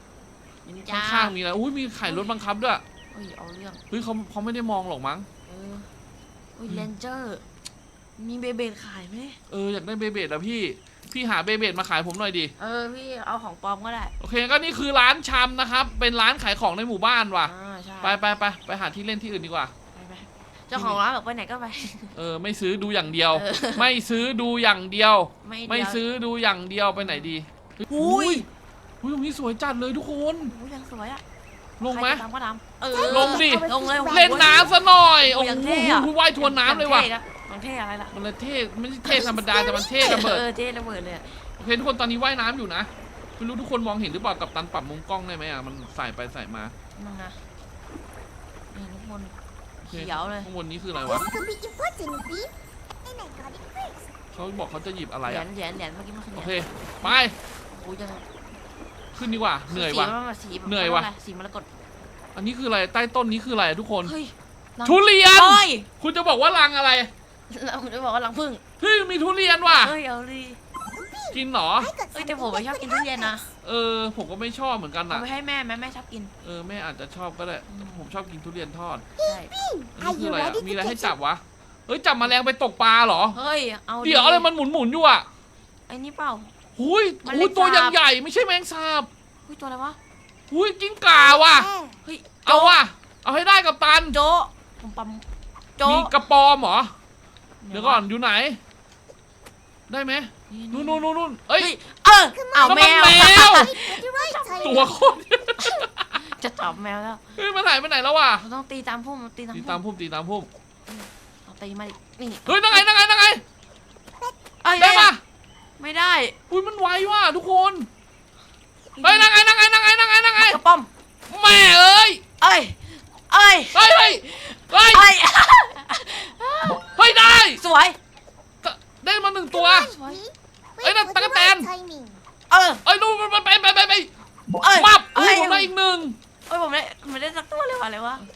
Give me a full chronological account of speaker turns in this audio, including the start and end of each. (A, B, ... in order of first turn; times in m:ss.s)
0:00.6-0:01.3 A
0:00.9-0:02.8 B
0:02.0-0:02.4 A
0:03.1-0:03.8 A
0:03.9-0:05.3 B
0:05.5-0:05.9 A
0:06.6-0:07.4 A
0:08.2-0:09.4 A
0:09.5-0:12.5 B
0:12.6-0:14.1 A
0:14.2-0:19.7 B
0:17.4-0:18.2 A
0:19.9-0:22.1 A
0:20.7-0:21.0 B
0:22.1-0:28.4 B
0:23.3-0:23.9 A
0:25.4-0:26.0 A
0:27.0-0:27.3 A
0:27.9-0:28.4 A
0:29.0-0:30.5 B
0:30.4-0:31.2 A
0:31.8-0:32.2 B
0:31.9-0:38.1 A
0:32.9-0:34.8 C
0:33.1-0:37.1 B
0:38.1-0:40.4 B
0:39.1-0:40.2 C
0:40.0-0:41.4 A
0:41.6-0:46.7 B
0:47.0-0:47.4 A
0:48.7-0:49.3 A
0:49.8-0:51.3 B
0:49.9-0:50.5 A
0:51.0-0:54.1 C
0:54.3-0:55.4 B
0:55.2-0:58.2 A
0:56.4-0:57.3 B
0:59.1-1:00.1 B
0:59.7-1:01.7 A
1:00.6-1:01.1 B
1:02.3-1:04.1 B
1:04.0-1:05.9 A
1:04.8-1:07.1 B
1:07.5-1:08.6 A
1:08.8-1:09.9 B
1:09.6-1:10.6 A
1:10.9-1:13.3 C
1:11.3-1:11.9 B
1:12.1-1:13.5 A
1:13.6-1:15.2 B
1:15.1-1:16.3 A
1:16.4-1:19.0 B
1:17.7-1:18.0 A
1:19.2-1:21.1 C
1:19.2-1:19.5 A
1:19.9-1:23.4 B
1:23.3-1:24.5 A
1:24.0-1:25.3 B
1:25.9-1:26.5 A
1:26.8-1:29.1 B
1:27.2-1:28.0 A
1:29.5-1:30.0 A
1:30.5-1:31.7 B
1:31.1-1:32.0 C
1:32.0-1:32.8 A
1:32.4-1:34.2 B
1:34.1-1:35.2 A
1:35.8-1:36.1 A
1:35.8-1:36.9 B
1:37.6-1:38.0 A
1:37.7-1:38.6 B
1:39.9-1:41.7 B
1:40.5-1:41.0 A
1:41.6-1:44.9 A
1:42.3-1:45.2 C
1:42.6-1:43.7 B
1:44.6-1:46.2 B
1:45.6-1:47.2 A
1:47.4-1:48.4 B
1:48.4-1:49.8 A
1:49.5-1:50.5 B
1:50.9-1:52.8 A
1:52.5-1:53.4 B
1:54.6-1:55.1 A
1:54.7-1:55.2 B
1:55.8-1:56.4 A
1:56.5-1:57.9 B
1:59.0-1:59.3 A
1:59.0-2:00.6 B
2:00.4-2:00.9 A
2:01.3-2:02.2 B
2:02.4-2:06.9 A
2:03.7-2:05.1 B
2:07.0-2:07.6 B
2:07.6-2:08.0 A
2:08.6-2:09.9 B
2:09.5-2:12.2 C
2:09.7-2:10.2 A
2:10.8-2:11.7 B
2:12.5-2:12.8 A
2:12.8-2:14.1 B
2:14.6-2:15.7 A
2:14.6-2:16.2 B
2:16.5-2:18.2 A